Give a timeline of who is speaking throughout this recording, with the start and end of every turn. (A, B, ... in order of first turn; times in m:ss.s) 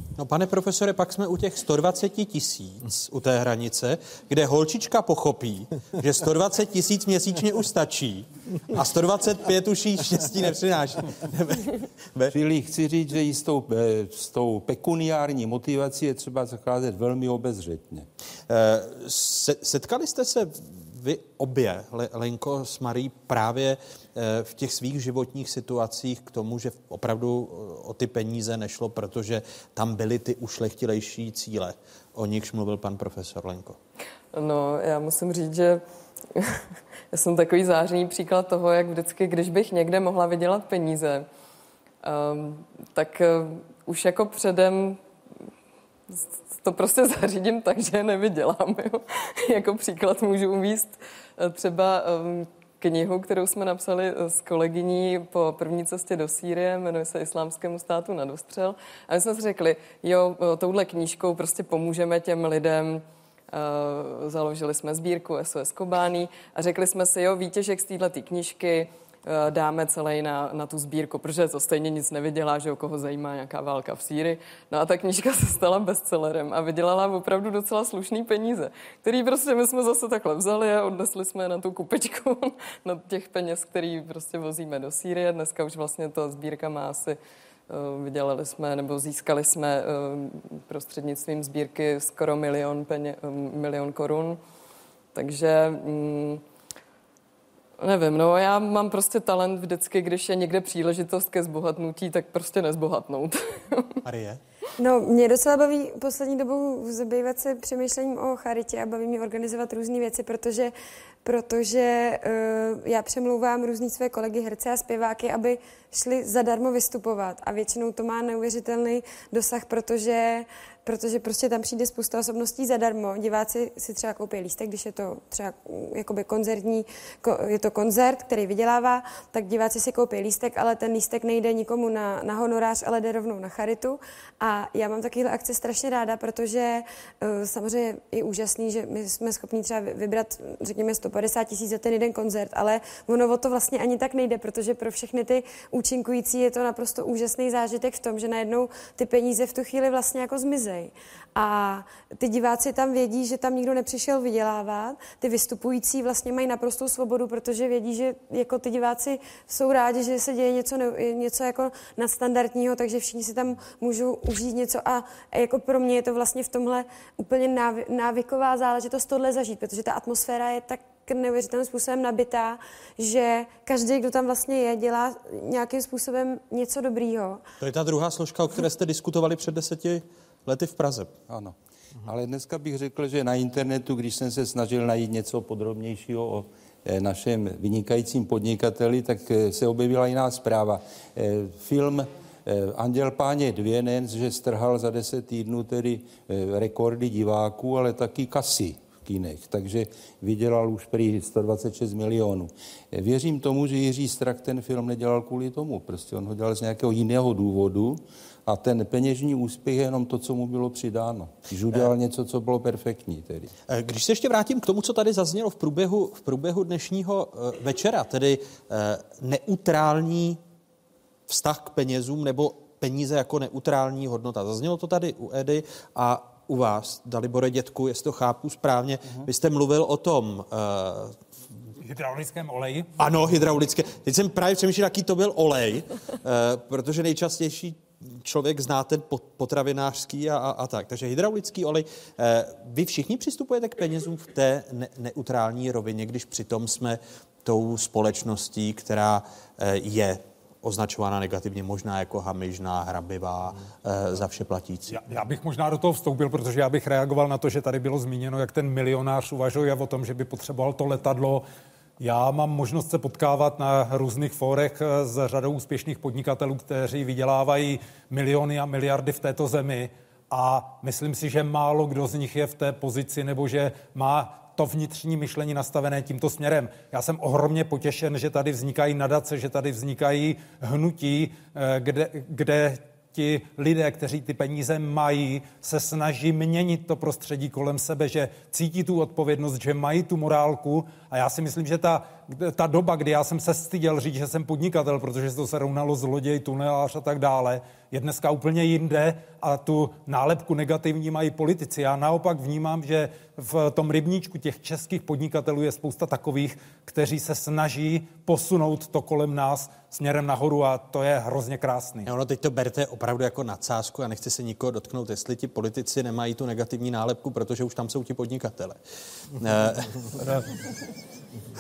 0:00.2-0:12.4 A
0:12.3-0:18.1 B
0:18.5-0:33.8 A
0:34.3-0:35.8 C
0:36.4-0:36.6 C
0:37.1-0:41.3 C
0:42.0-0:45.0 C
0:46.1-1:27.2 C
1:27.7-1:34.4 C
1:35.2-1:36.4 C
1:37.8-1:44.0 C
1:44.0-1:44.4 A
1:44.8-2:57.4 D
2:57.6-3:01.1 A
3:01.3-3:33.5 B
3:33.7-3:40.4 A
3:41.3-3:51.2 A
3:51.8-3:52.9 E
3:53.0-4:15.0 A
4:14.9-4:21.4 E
4:22.0-5:12.1 E
5:12.1-5:18.8 A
5:19.4-5:20.4 A